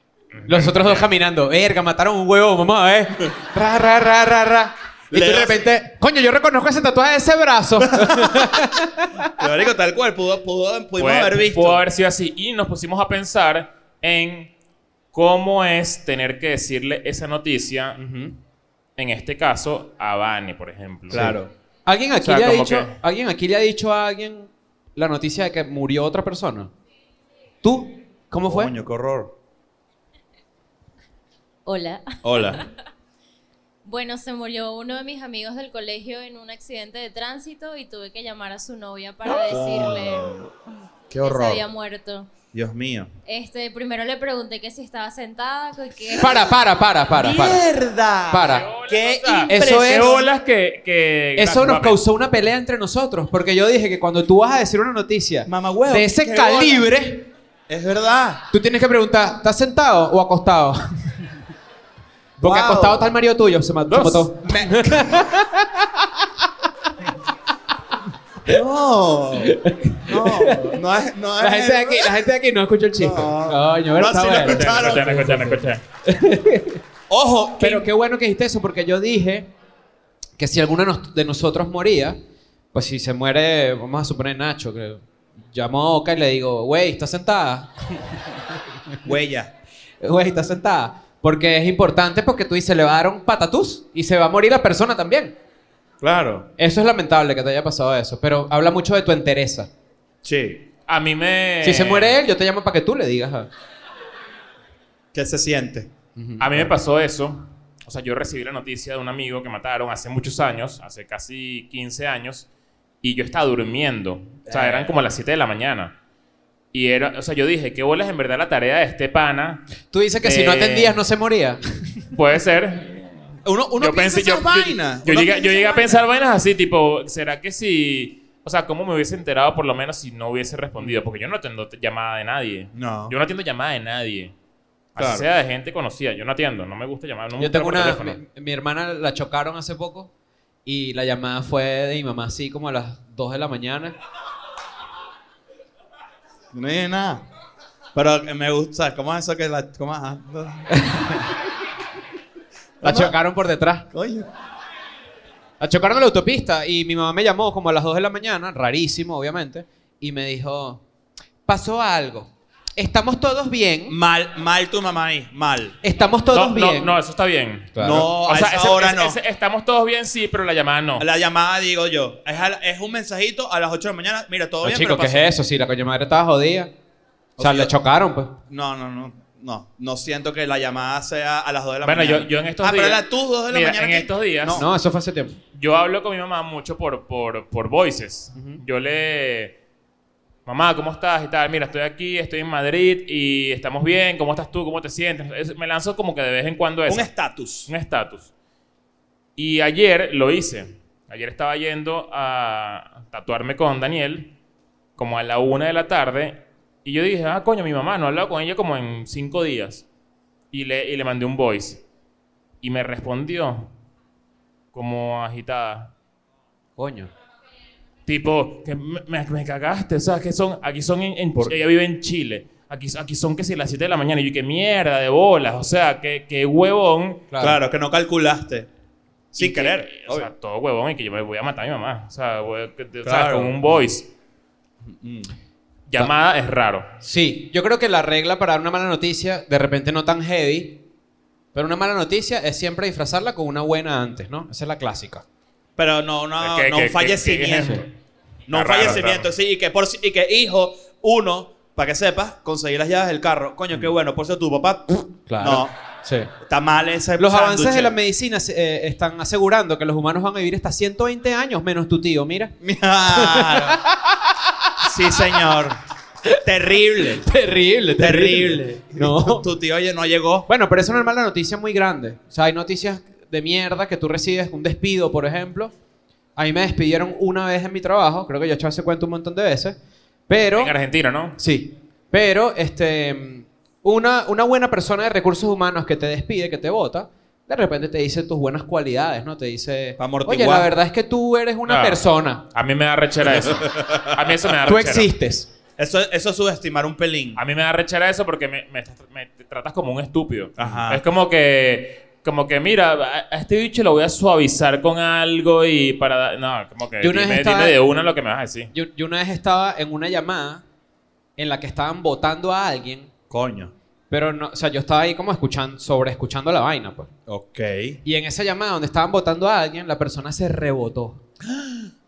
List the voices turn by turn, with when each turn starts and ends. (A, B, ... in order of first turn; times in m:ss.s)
0:00.4-0:01.1 A
0:00.5-0:09.3 B
0:05.1-0:05.6 C
0:07.9-0:08.5 C
0:09.4-0:11.8 C
0:11.0-0:14.5 A
0:15.1-0:18.0 A
0:18.0-0:18.4 B
0:19.0-0:21.3 A
0:21.1-0:21.5 C
0:21.1-0:26.7 B
0:22.2-0:23.0 A
0:27.6-0:28.7 B
0:28.5-0:29.4 C
0:31.7-0:32.7 D
0:32.2-0:32.7 C
0:33.8-0:40.4 D
0:39.4-0:40.5 C
0:41.1-0:41.6 C
0:41.2-0:42.3 D
0:42.5-0:43.1 C
0:43.3-0:46.4 D
0:46.2-0:47.7 B
0:47.1-0:50.2 C
0:48.3-0:48.7 B
0:48.4-0:52.0 A
0:49.5-0:50.2 B
0:51.4-0:57.3 B
0:55.5-0:56.9 C
0:57.7-0:58.4 C
0:58.5-1:00.8 B
1:02.4-1:03.1 C
1:02.4-1:06.5 B
1:04.1-1:05.4 C
1:08.4-1:12.2 C
1:09.4-1:10.8 B
1:11.4-1:16.8 B
1:13.0-1:15.2 C
1:14.4-1:15.8 A
1:17.1-1:17.9 C
1:17.6-1:19.5 B
1:20.4-1:22.2 B
1:22.7-1:29.0 B
1:29.0-1:29.5 C
1:30.0-1:35.4 B
1:36.0-1:36.5 C
1:36.6-1:39.7 B
1:40.2-1:40.7 C
1:40.9-1:42.2 A
1:41.6-1:43.5 B
1:45.1-1:45.9 C
1:46.2-1:46.7 B
1:46.4-1:52.5 A
1:53.0-1:56.0 A
1:54.5-1:54.9 C
1:56.7-1:59.7 A
1:59.9-2:02.0 B
2:00.2-2:01.0 A
2:02.1-2:03.3 A
2:03.4-2:06.0 C
2:03.8-2:14.3 A
2:12.8-2:13.2 C
2:15.0-2:18.2 A
2:15.0-2:15.2 C
2:17.4-2:20.1 B
2:20.7-2:24.0 B
2:26.5-2:27.2 C
2:28.0-2:30.8 C
2:30.7-2:31.3 B
2:32.8-2:33.2 C
2:32.8-2:33.9 B
2:33.9-2:34.3 C
2:35.6-2:40.8 B
2:41.5-2:44.0 B
2:43.9-2:45.8 C
2:45.8-2:47.0 B
2:46.3-2:51.0 A
2:47.8-2:48.1 B
2:47.8-2:49.2 C
2:51.0-2:55.3 C
2:54.6-2:56.7 B
2:57.4-2:57.7 C
2:57.4-2:58.4 B
2:58.5-3:04.7 C
3:01.8-3:04.6 A
3:04.5-3:05.4 B
3:05.5-3:09.6 A
3:08.4-3:08.6 B
3:10.5-3:17.1 A
3:16.9-3:17.7 C
3:17.7-3:18.3 A
3:19.4-3:24.3 A
3:25.0-3:29.8 A
3:30.5-3:31.8 A
3:32.6-3:33.7 A
3:34.7-3:35.9 A
3:36.8-3:37.1 B
3:38.1-3:47.3 A
3:47.3-3:47.6 B
3:47.4-3:48.7 C
3:49.3-3:50.3 C
3:49.4-3:54.1 A
3:53.0-3:53.5 C
3:54.8-3:55.3 C
3:55.9-3:57.0 A
3:57.0-4:00.8 B
4:01.5-4:05.2 B
4:05.8-4:07.8 C
4:06.4-4:07.9 A
4:08.5-4:15.8 C
4:08.5-4:09.3 A
4:15.3-4:16.3 B
4:16.4-4:17.9 C
4:17.2-4:22.5 B
4:22.6-4:23.8 C
4:23.1-4:25.5 B
4:24.8-4:25.8 C
4:26.2-4:29.5 B
4:26.4-4:27.3 C
4:28.0-4:30.5 C
4:30.5-4:35.7 B
4:36.4-4:40.7 B
4:40.6-4:41.4 A
4:41.4-4:52.4 B
4:50.0-4:50.7 C
4:51.7-4:55.1 A
4:53.5-4:54.1 C
4:54.6-4:55.5 B
4:55.8-4:57.4 C
4:57.4-5:08.7 A
5:00.6-5:01.0 C
5:07.0-5:07.8 B
5:08.7-5:10.6 B
5:11.4-5:13.1 B
5:13.3-5:13.7 C
5:14.1-5:17.1 B
5:17.3-5:18.0 C
5:18.0-5:21.2 B
5:21.4-5:21.9 C